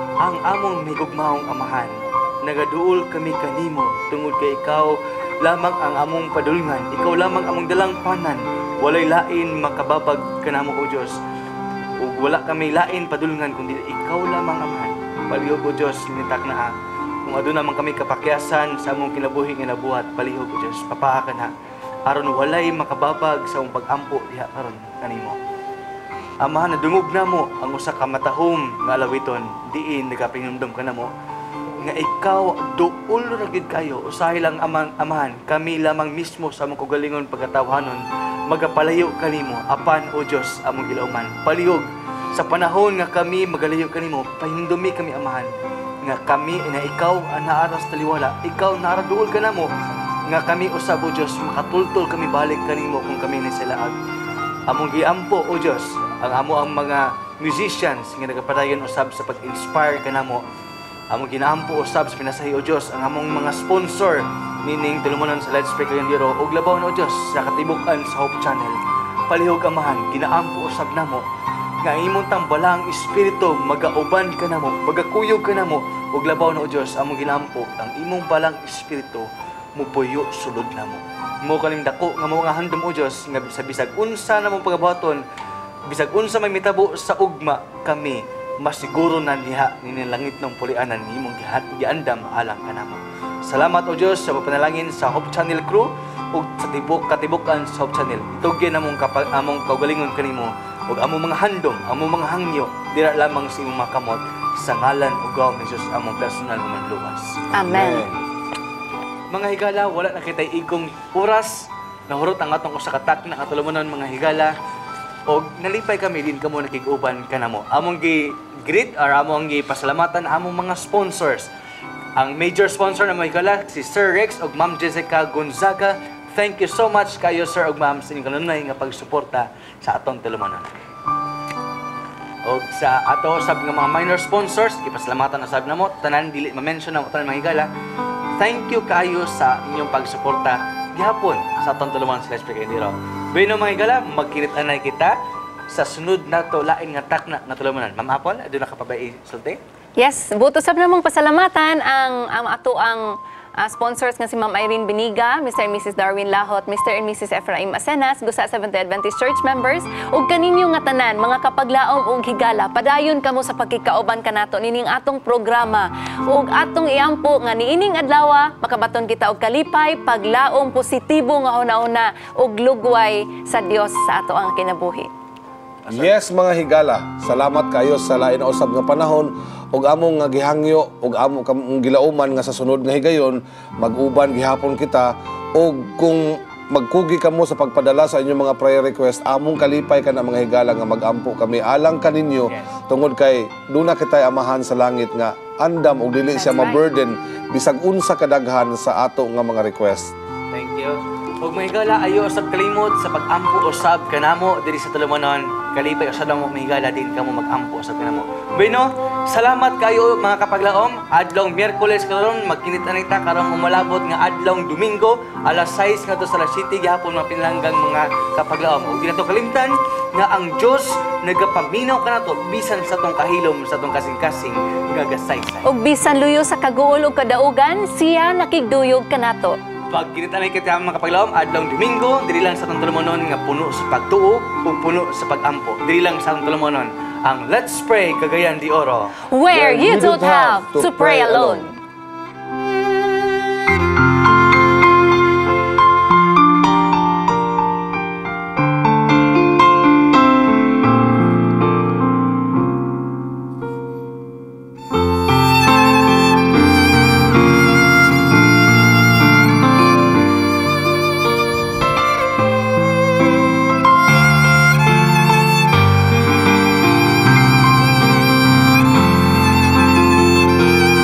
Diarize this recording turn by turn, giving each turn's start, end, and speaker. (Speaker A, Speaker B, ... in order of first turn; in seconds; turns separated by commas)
Speaker A: 0.2-11.1, Speaker A: 12.0-16.7, Speaker A: 17.2-21.5, Speaker A: 22.1-25.4, Speaker A: 26.4-31.1, Speaker A: 31.8-45.5, Speaker A: 46.0-49.7, Speaker A: 50.3-53.9, Speaker A: 54.7-60.4, Speaker A: 61.1-68.8, Speaker A: 69.3-71.2, Speaker A: 71.8-85.2, Speaker A: 85.9-107.4, Speaker B: 107.5-108.0, Speaker C: 107.6-108.2, Speaker A: 109.3-114.5, Speaker A: 115.3-121.5, Speaker A: 122.2-130.6, Speaker A: 132.4-137.7, Speaker A: 138.4-145.2, Speaker A: 145.7-149.6, Speaker B: 150.0-153.0, Speaker B: 153.6-175.1, Speaker C: 175.9-200.1, Speaker B: 196.3-196.8, Speaker A: 200.5-225.7, Speaker B: 225.7-229.6, Speaker A: 229.9-239.1, Speaker B: 239.3-241.7, Speaker C: 239.5-241.7